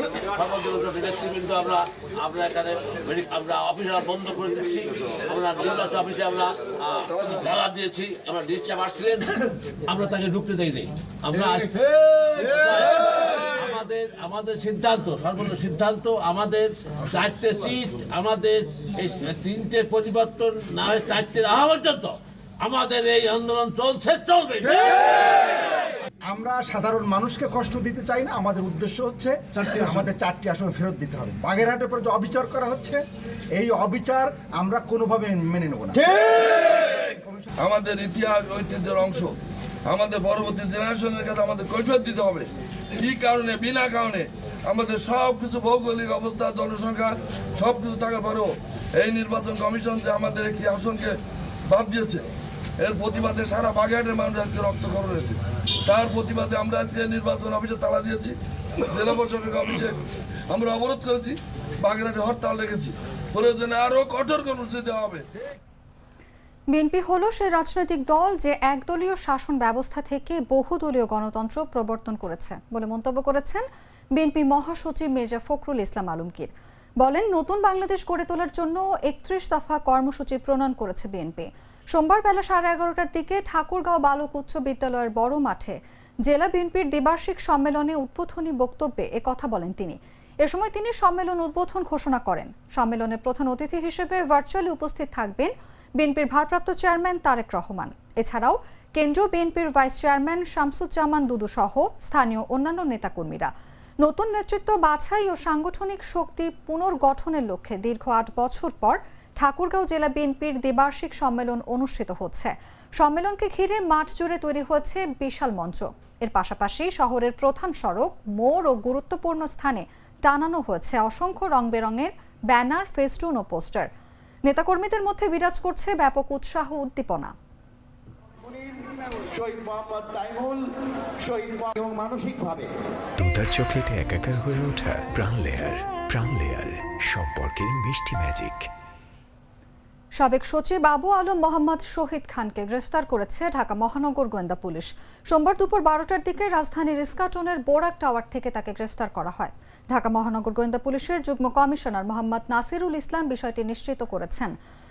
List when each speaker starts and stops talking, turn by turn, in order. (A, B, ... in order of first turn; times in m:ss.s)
0:00.3-0:25.2 A
0:26.3-0:33.0 B
0:33.6-0:37.5 B
0:37.6-0:39.3 C
0:39.9-0:52.2 C
0:52.8-1:00.0 C
1:00.5-1:05.2 C
1:06.7-2:03.9 D
2:04.4-2:07.4 D
2:08.4-2:10.7 E
2:11.2-2:12.7 E
2:13.2-2:18.7 F
2:20.2-2:34.6 D